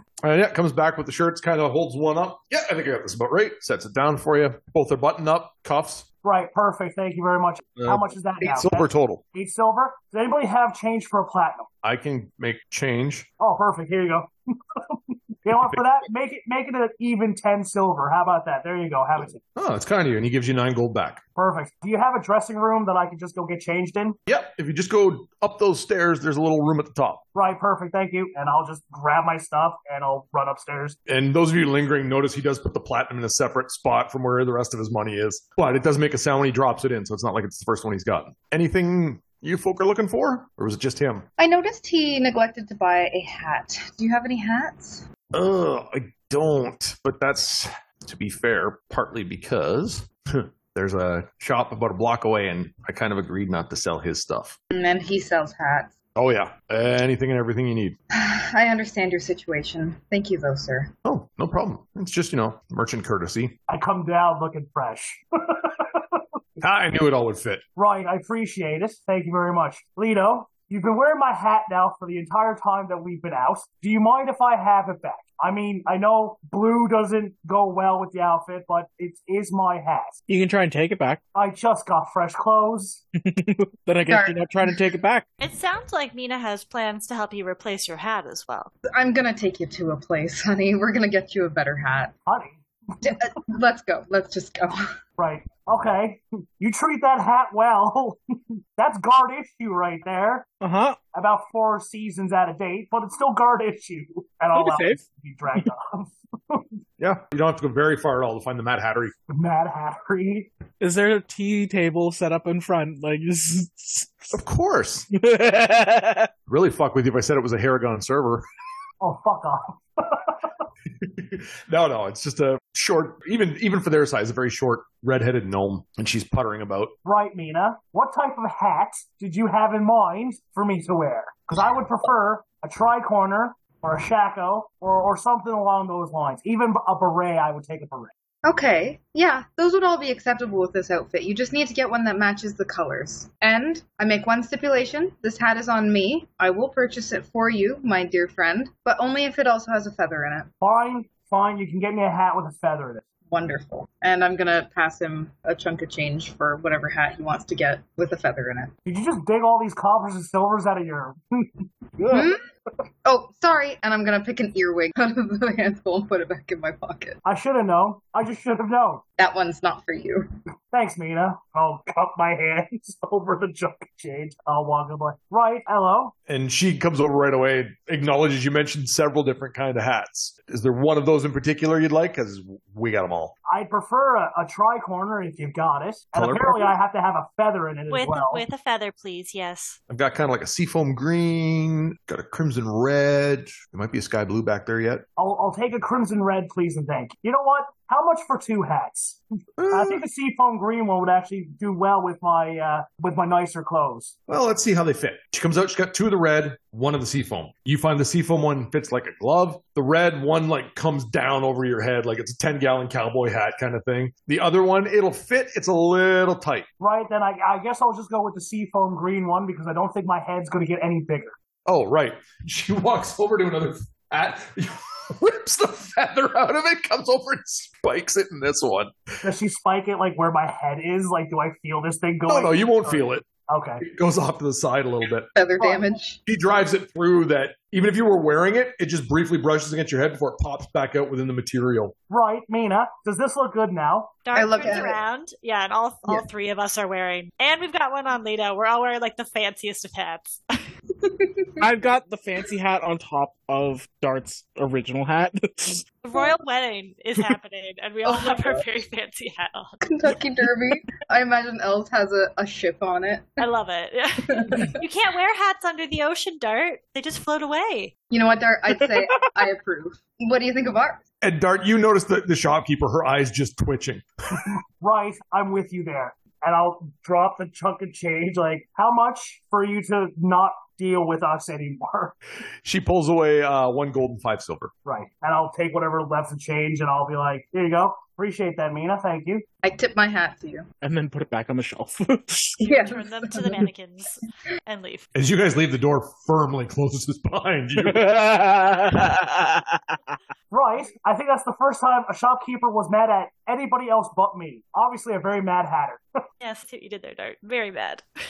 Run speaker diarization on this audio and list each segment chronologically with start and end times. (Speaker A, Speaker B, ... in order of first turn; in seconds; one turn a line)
Speaker A: 0.2-6.1
Speaker B: 6.2-11.7
Speaker A: 7.8-9.2
Speaker A: 11.8-13.3
Speaker B: 13.4-19.4
Speaker A: 15.5-15.8
Speaker A: 19.5-21.2
Speaker B: 21.4-24.2
Speaker A: 24.3-27.2
Speaker B: 27.3-31.0
Speaker A: 31.1-41.3
Speaker C: 41.4-45.0
Speaker A: 45.3-54.6
Speaker C: 54.7-55.9
Speaker A: 56.1-58.0
Speaker C: 58.1-60.9
Speaker A: 61.0-63.6
Speaker B: 63.7-66.2
Speaker A: 66.6-67.6
Speaker B: 67.8-80.2
Speaker D: 80.3-81.2
Speaker B: 81.3-83.0
Speaker D: 83.2-85.2
Speaker C: 84.0-84.8
Speaker E: 85.4-88.7
Speaker C: 88.9-92.2
Speaker B: 92.2-93.2
Speaker C: 93.0-95.0
Speaker B: 95.2-98.2
Speaker B: 98.8-100.5
Speaker D: 100.6-101.0
Speaker B: 101.1-106.7
Speaker D: 104.5-105.0
Speaker A: 107.0-109.1
Speaker B: 109.3-110.5
Speaker D: 110.8-114.4
Speaker A: 114.3-115.1
Speaker D: 115.1-116.3
Speaker A: 116.5-118.4
Speaker B: 119.0-120.5
Speaker A: 121.0-126.9
Speaker B: 127.0-138.1
Speaker C: 138.4-150.5
Speaker B: 150.6-153.0
Speaker C: 153.3-158.7
Speaker B: 158.8-162.2
Speaker C: 162.1-162.4
Speaker C: 163.0-167.2
Speaker B: 167.2-169.0
Speaker C: 169.2-170.3
Speaker B: 170.7-176.1
Speaker A: 176.3-183.3
Speaker B: 183.5-188.4
Speaker A: 186.1-186.7
Speaker E: 187.9-189.8
Speaker A: 189.9-195.0
Speaker B: 195.2-204.1
Speaker A: 199.6-200.0
Speaker A: 204.3-216.7
Speaker B: 216.8-221.3
Speaker A: 221.7-229.1
Speaker B: 229.2-233.8
Speaker A: 232.3-233.3
Speaker A: 233.8-235.3
Speaker C: 235.3-236.2
Speaker A: 236.2-241.9
Speaker B: 242.1-244.2
Speaker E: 244.2-250.4
Speaker C: 244.3-245.0
Speaker C: 251.0-251.5
Speaker D: 251.6-255.8
Speaker E: 256.0-259.8
Speaker C: 258.0-258.6
Speaker C: 259.8-263.4
Speaker E: 263.4-267.9
Speaker C: 264.3-264.8
Speaker C: 268.1-271.0
Speaker A: 271.2-274.1
Speaker B: 274.8-282.1
Speaker A: 282.6-284.7
Speaker B: 284.9-289.4
Speaker C: 289.6-290.7
Speaker D: 290.8-292.6
Speaker C: 292.6-293.6
Speaker E: 292.6-295.1
Speaker A: 295.1-298.1
Speaker D: 297.8-299.9
Speaker B: 300.5-306.0
Speaker E: 306.4-308.0